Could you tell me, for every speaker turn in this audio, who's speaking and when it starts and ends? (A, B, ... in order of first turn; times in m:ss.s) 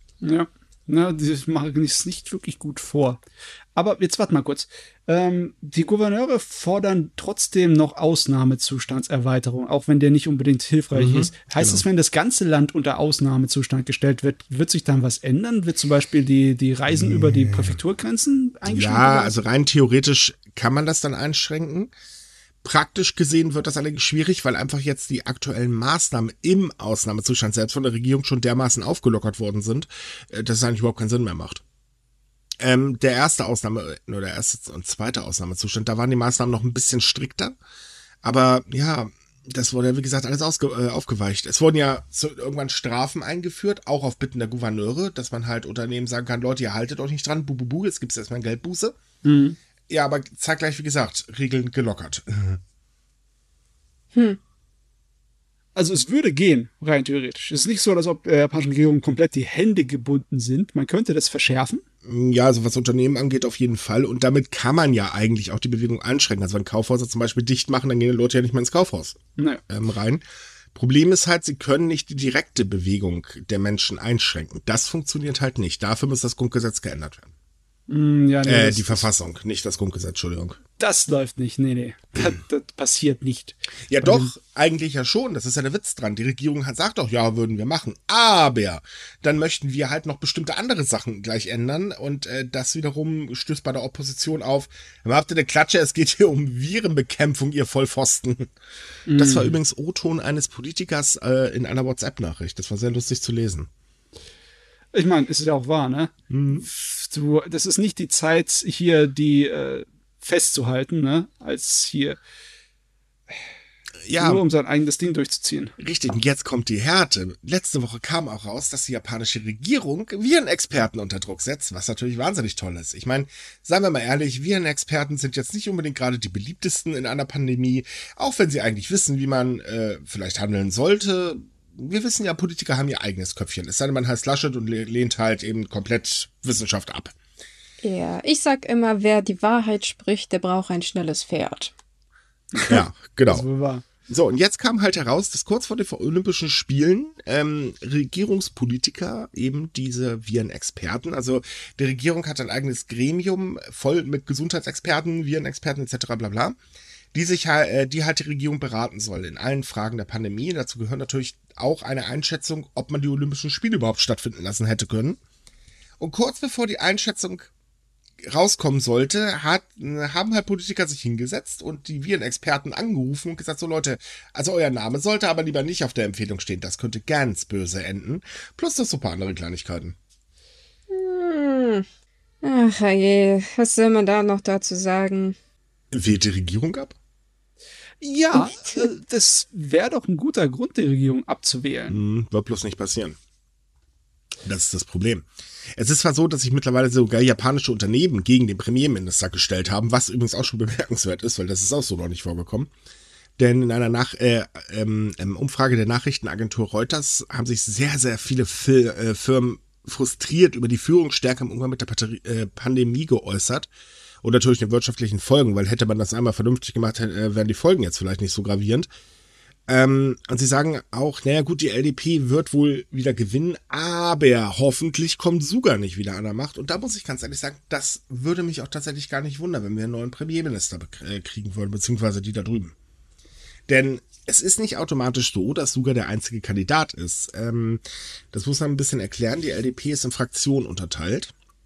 0:00.2-0:03.2 A
0:03.8-0:19.4 A
0:11.0-0:11.8 B
0:16.9-0:17.8 B
0:18.6-0:21.9 B
0:22.6-0:31.6 B
0:32.6-0:37.6 B
0:38.2-0:49.0 B
0:49.2-0:49.6 A
0:49.9-0:52.6 B
0:54.1-0:54.4 C
0:55.8-1:01.8 A
1:02.0-1:10.2 B
1:10.8-1:17.3 B
1:17.9-1:19.1 A
1:18.4-1:20.6 B
1:20.8-1:24.3 A
1:23.9-1:38.5 B
1:39.1-1:39.6 A
1:39.1-1:43.7 B
1:44.9-1:46.1 A
1:46.3-1:46.7 B
1:46.7-1:52.2 A
1:54.0-1:54.4 B
1:54.2-1:55.7 A
1:55.8-2:17.2 B
2:17.8-2:21.7 C
2:22.5-2:23.8 A
2:22.7-2:23.5 B
2:24.1-2:36.6 B
2:37.1-2:45.2 B
2:46.0-2:47.5 B
2:48.2-3:00.0 B
3:00.9-3:01.9 C
3:02.4-3:05.4 C
3:05.9-3:07.0 B
3:08.0-3:12.0 A
3:08.3-3:08.8 C
3:11.9-3:13.2 B
3:14.4-3:22.7 B
3:23.4-3:33.7 B
3:34.2-3:38.9 B
3:39.7-3:52.7 B
3:53.7-4:01.3 B